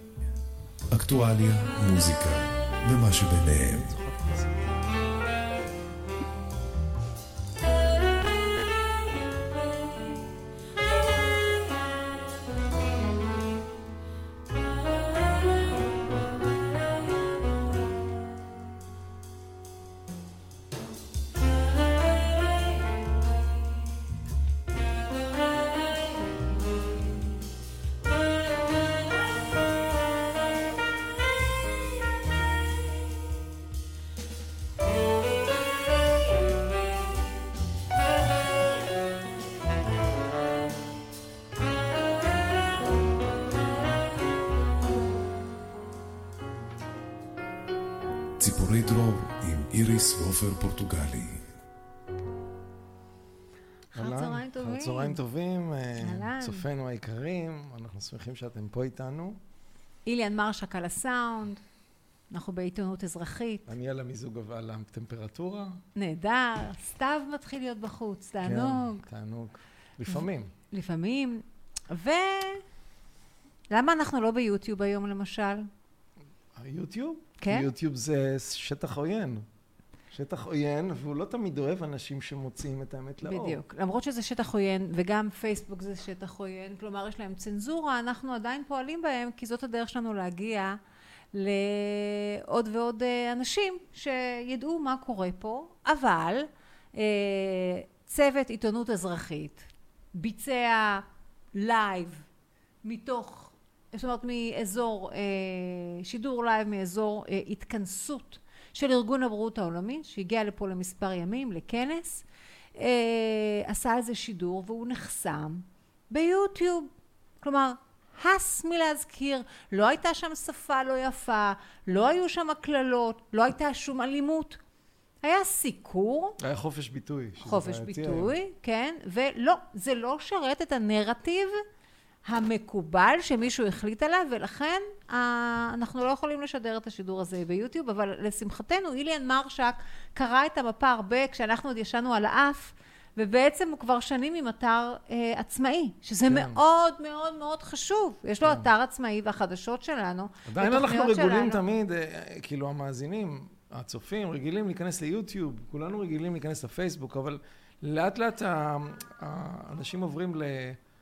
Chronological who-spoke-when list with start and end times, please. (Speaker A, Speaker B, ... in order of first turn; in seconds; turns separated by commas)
Speaker A: 0.9-4.1, Speaker B: 22.0-23.6, Speaker B: 25.7-26.8, Speaker B: 28.8-29.5, Speaker A: 48.4-51.5, Speaker C: 53.9-59.4, Speaker B: 53.9-55.2, Speaker B: 56.0-56.6, Speaker B: 60.1-61.6, Speaker B: 62.3-63.6, Speaker C: 63.7-65.8, Speaker B: 66.0-69.0, Speaker C: 68.4-70.5, Speaker B: 70.1-72.6, Speaker B: 73.7-75.7, Speaker C: 76.6-79.5, Speaker B: 77.4-77.7, Speaker C: 80.1-83.6, Speaker B: 83.2-90.8, Speaker B: 91.3-102.2, Speaker B: 102.8-112.2, Speaker B: 112.8-116.9, Speaker B: 117.4-124.6, Speaker B: 125.2-126.4, Speaker C: 126.4-128.3, Speaker B: 127.4-131.6, Speaker B: 132.3-151.6, Speaker C: 146.3-146.6, Speaker C: 148.4-148.7, Speaker C: 150.5-160.8